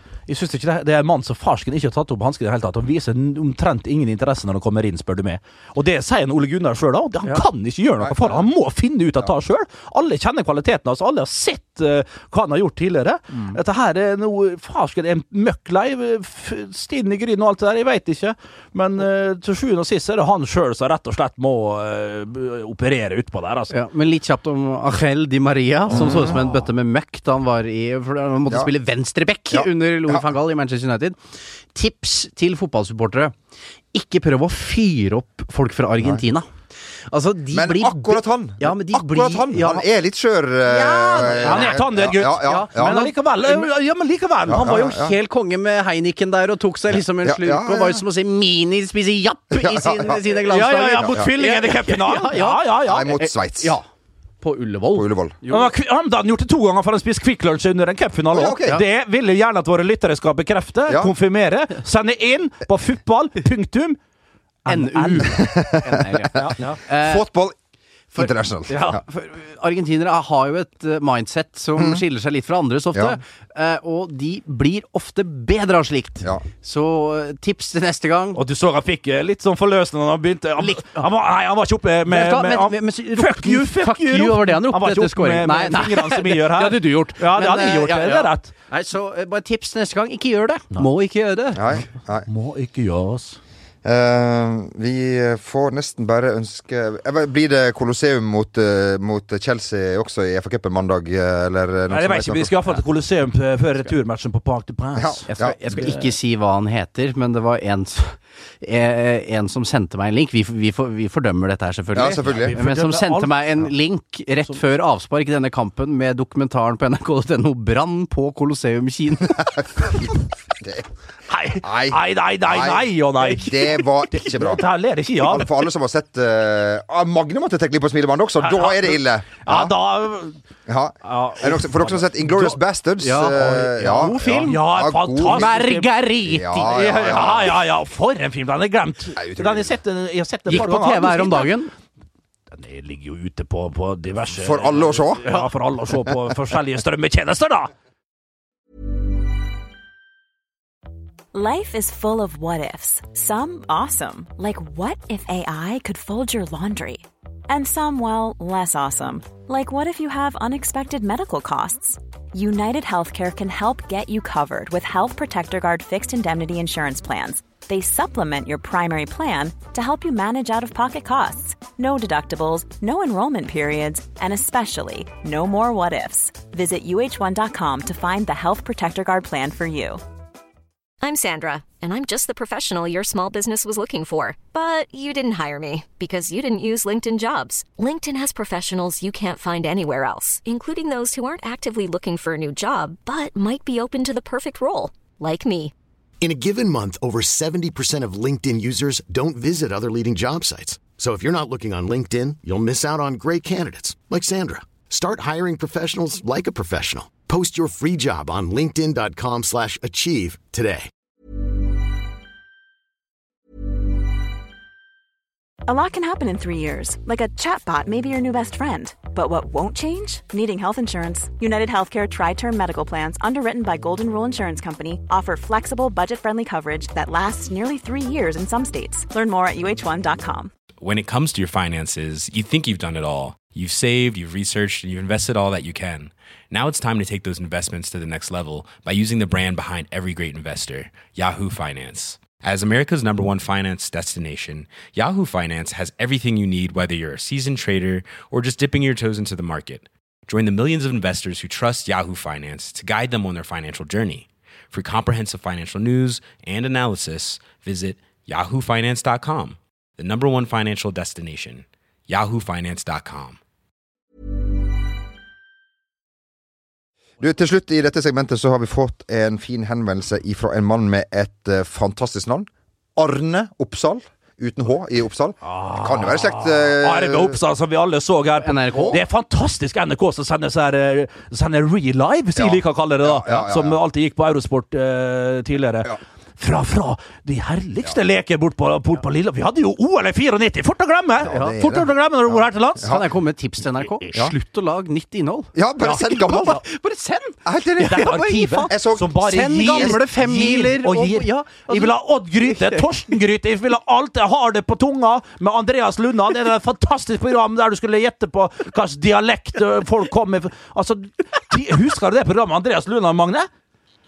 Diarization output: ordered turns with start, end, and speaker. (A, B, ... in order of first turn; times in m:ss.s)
0:00.3-0:23.7 A
0:08.0-0:08.4 B
0:23.7-0:31.2 C
0:25.9-0:26.4 B
0:29.5-0:30.2 B
0:31.7-0:33.3 C
0:33.9-0:36.5 C
0:37.1-0:39.8 C
0:37.5-0:43.1 B
0:40.6-0:43.7 C
0:41.2-0:44.8 A
0:44.5-0:45.1 B
0:44.5-0:53.8 C
0:47.2-0:48.0 B
0:49.5-0:50.2 B
0:50.4-0:53.2 A
0:52.8-0:53.8 B
0:54.4-0:55.7 C
0:54.9-0:55.4 B
0:55.5-1:04.0 A
0:58.3-0:58.8 B
1:00.9-1:01.1 B
1:04.6-1:05.5 A
1:04.7-1:07.3 C
1:05.2-1:07.5 B
1:06.3-1:06.8 A
1:08.1-1:18.4 C
1:08.2-1:09.0 B
1:11.8-1:12.0 B
1:18.3-1:28.5 A
1:20.6-1:21.1 C
1:22.1-1:31.7 C
1:31.5-1:32.3 B
1:32.3-1:33.4 A
1:33.8-1:42.8 B
1:41.9-1:46.1 A
1:45.0-1:45.6 B
1:45.3-1:59.5 C
1:51.9-1:52.6 B
1:52.2-1:53.7 A
1:59.4-2:00.1 B
2:01.3-2:05.5 A
2:01.6-2:04.6 B
2:05.2-2:09.7 B
2:08.4-2:10.4 A
2:10.7-2:15.5 B
2:11.0-2:12.6 A
2:13.0-2:17.4 C
2:14.2-2:15.9 A
2:16.2-2:17.6 B
2:16.6-2:21.5 A
2:19.2-2:19.7 B
2:20.5-2:21.7 C
2:22.5-2:27.7 A
2:24.3-2:25.2 B
2:31.3-3:00.0 D
3:01.0-3:15.7 E
3:16.2-3:30.9 F
3:35.6-3:50.5 D
3:50.8-4:23.4 G
4:27.2-4:37.4 B
4:35.4-4:52.9 A
4:38.4-4:39.0 C
4:38.7-4:39.0 B
4:42.4-4:43.8 B
4:51.2-4:53.1 B
4:51.3-4:51.7 C
4:52.8-5:02.9 C
4:55.5-4:56.6 B
4:57.4-4:59.9 B
4:57.8-5:13.5 A